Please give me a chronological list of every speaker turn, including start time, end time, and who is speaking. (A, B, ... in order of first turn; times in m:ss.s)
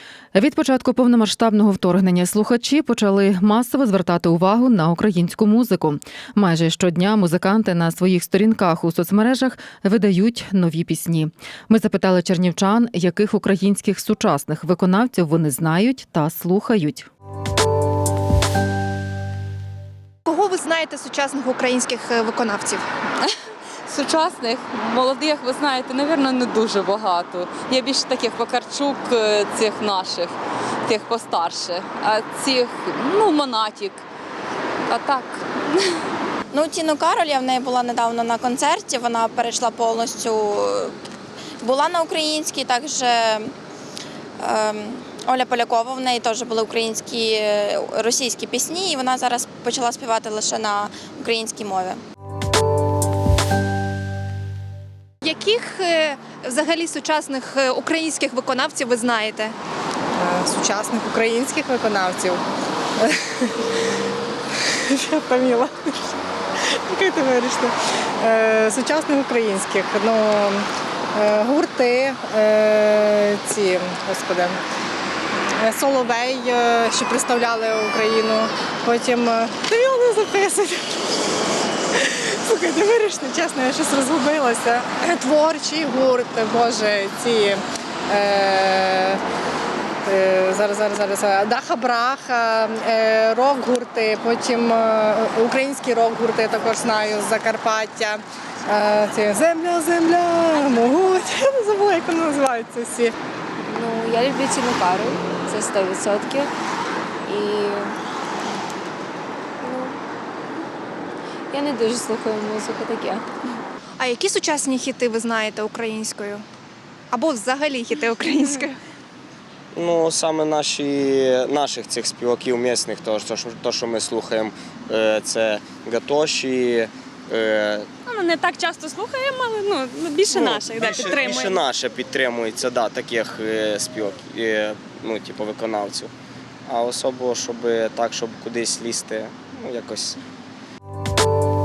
0:00.3-0:17.1 A
0:20.2-0:22.8 B
0:23.9-0:30.3 C
0:30.9-0:34.0 C
0:34.9-0:35.9 C
0:36.5-0:41.0 D
0:41.6-0:43.5 D
0:44.4-0:52.0 D
0:55.2-0:59.6 B
1:00.2-1:02.4 E
1:03.0-1:03.6 E
1:04.7-1:14.6 E
1:15.6-1:21.1 E
1:21.9-1:29.2 E
1:30.1-1:43.1 E
1:43.7-1:46.5 F
1:47.3-1:48.0 F
1:49.6-1:50.0 F
1:51.5-1:53.2 F
1:54.0-1:56.4 B
1:57.1-1:58.8 B
1:59.8-2:07.9 G
2:08.1-2:11.6 H
2:10.3-2:16.1 G
2:16.7-2:20.2 G